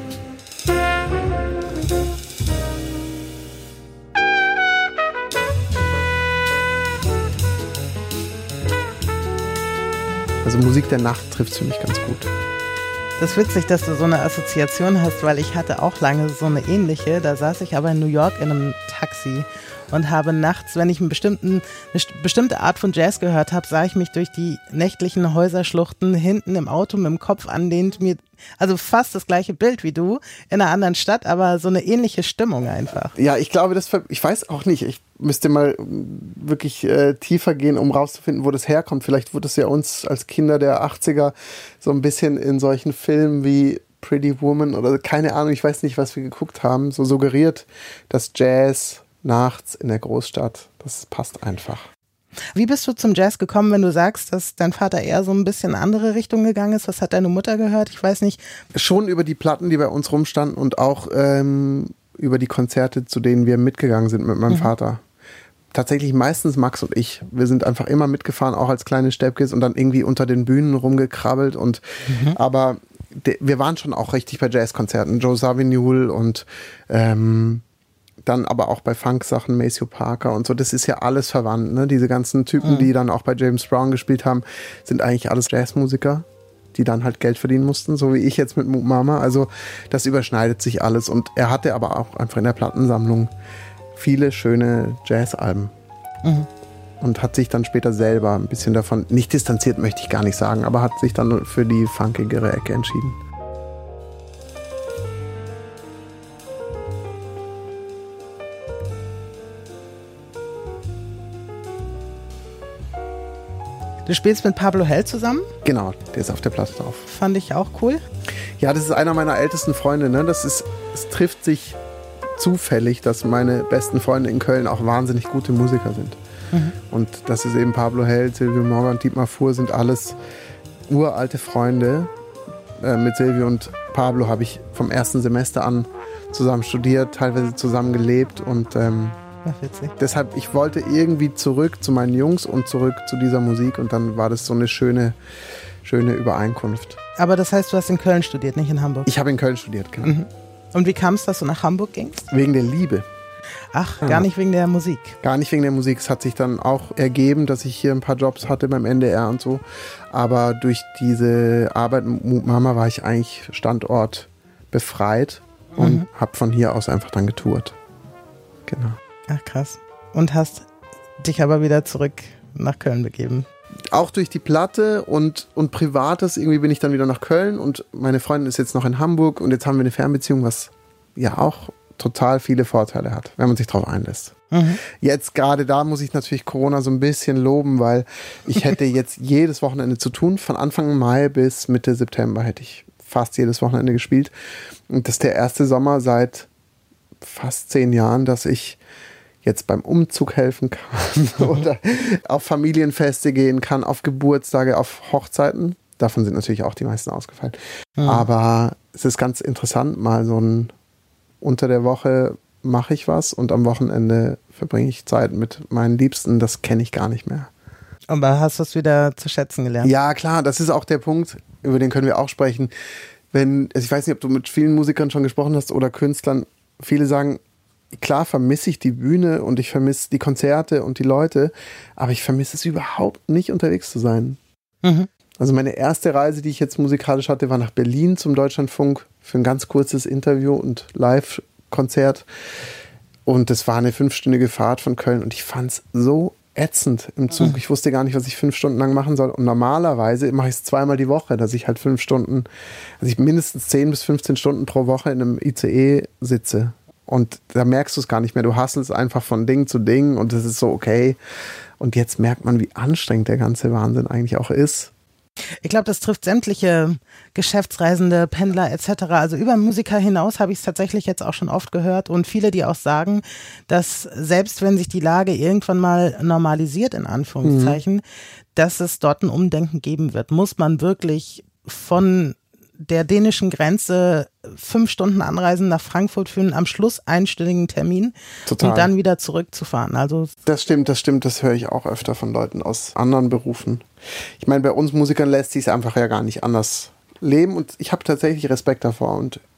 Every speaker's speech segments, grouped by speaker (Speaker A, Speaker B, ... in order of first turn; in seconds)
Speaker A: 10.4-12.3, 33.1-51.9, 58.7-65.0, 65.7-77.6, 78.2-93.3, 94.0-95.7, 97.0-103.2, 115.6-117.1, 118.6-121.8, 122.4-126.2, 126.8-130.2, 130.9-132.1, 132.8-139.2, 140.0-145.2, 145.8-147.0, 149.1-150.2, 152.3-153.1, 154.0-154.3, 155.2-167.8, 168.7-169.0, 173.9-194.3, 194.9-196.5, 197.2-198.8, 199.4-210.7, 211.4-217.5, 219.8-222.7, 223.3-227.4, 227.9-234.4, 235.4-242.3, 243.3-252.5, 253.0-261.2, 261.8-264.9, 277.4-277.8, 288.5-288.9, 290.5-293.9, 294.4-299.4
Speaker B: 13.2-33.1, 52.5-58.4, 72.1-72.4, 114.1-115.5, 117.1-118.0, 139.4-139.9, 147.2-149.1, 150.0-152.3, 153.7-155.2, 165.8-166.1, 169.3-170.7, 171.2-173.5, 184.5-184.8, 208.0-208.2, 218.1-219.9, 234.8-235.1, 265.6-278.0, 278.6-290.3